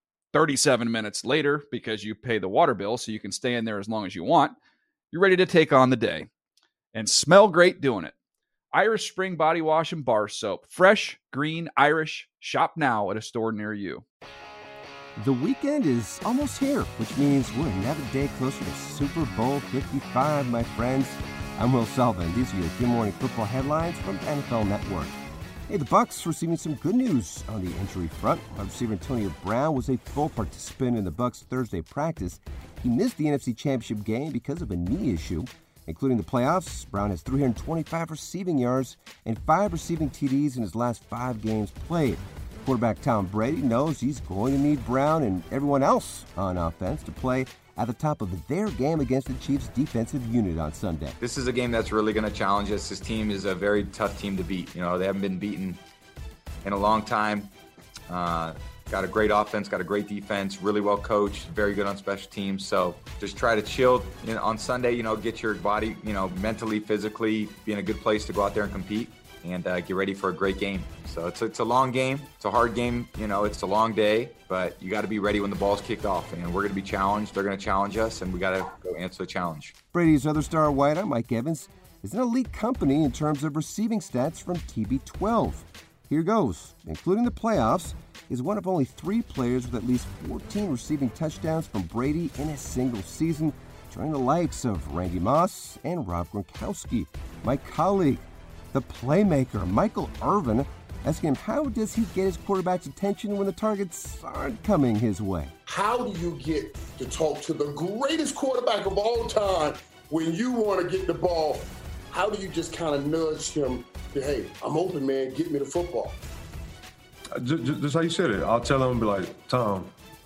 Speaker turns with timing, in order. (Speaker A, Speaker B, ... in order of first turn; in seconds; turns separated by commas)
Speaker A: 0.3-4.5, Speaker A: 5.1-6.3, Speaker A: 6.9-8.1, Speaker A: 8.7-14.0, Speaker B: 15.2-25.1, Speaker B: 25.7-51.1, Speaker C: 51.2-55.8, Speaker C: 56.6-57.5, Speaker C: 58.1-79.7, Speaker B: 79.9-105.5, Speaker D: 105.7-116.2, Speaker E: 117.4-119.9